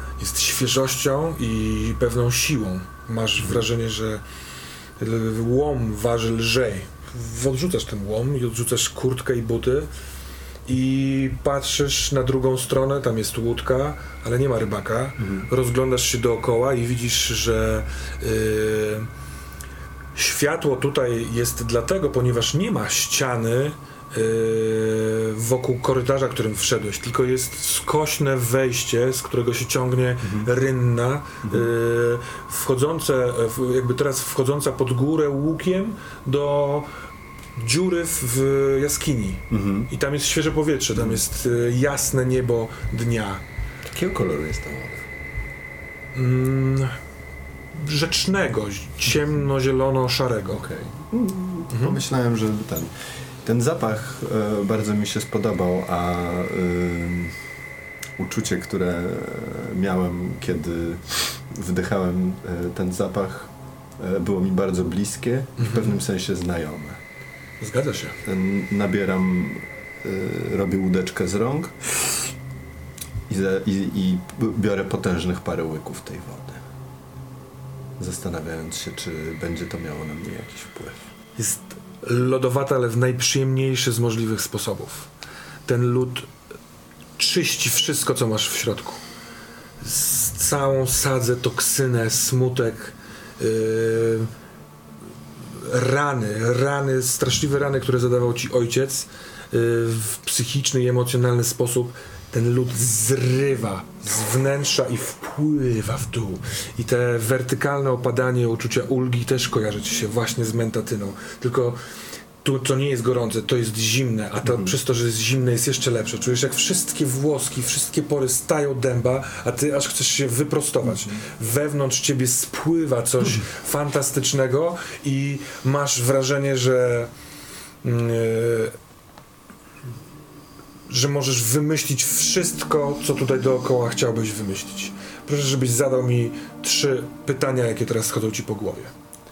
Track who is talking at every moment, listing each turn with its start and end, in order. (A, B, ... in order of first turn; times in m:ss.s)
0:00.2-0:04.2 A
0:05.0-0:09.9 A
0:10.7-0:19.1 A
0:15.2-0:15.5 B
0:20.2-0:36.9 A
0:37.6-0:43.4 A
0:39.5-0:39.9 B
0:43.8-0:45.1 B
0:46.2-0:47.0 A
0:47.7-0:50.6 A
0:50.5-0:52.9 B
0:51.7-0:52.0 A
0:53.4-0:57.4 B
0:58.2-1:07.0 B
1:05.6-1:06.0 A
1:07.6-1:08.2 A
1:08.2-1:12.2 B
1:13.3-1:16.6 B
1:18.0-1:21.0 B
1:21.4-1:25.1 A
1:25.7-1:26.3 A
1:27.2-1:29.0 A
1:29.8-1:34.3 A
1:35.4-1:51.8 A
1:52.4-2:07.1 A
1:54.4-1:54.7 B
2:07.8-2:08.8 A
2:10.9-2:18.9 A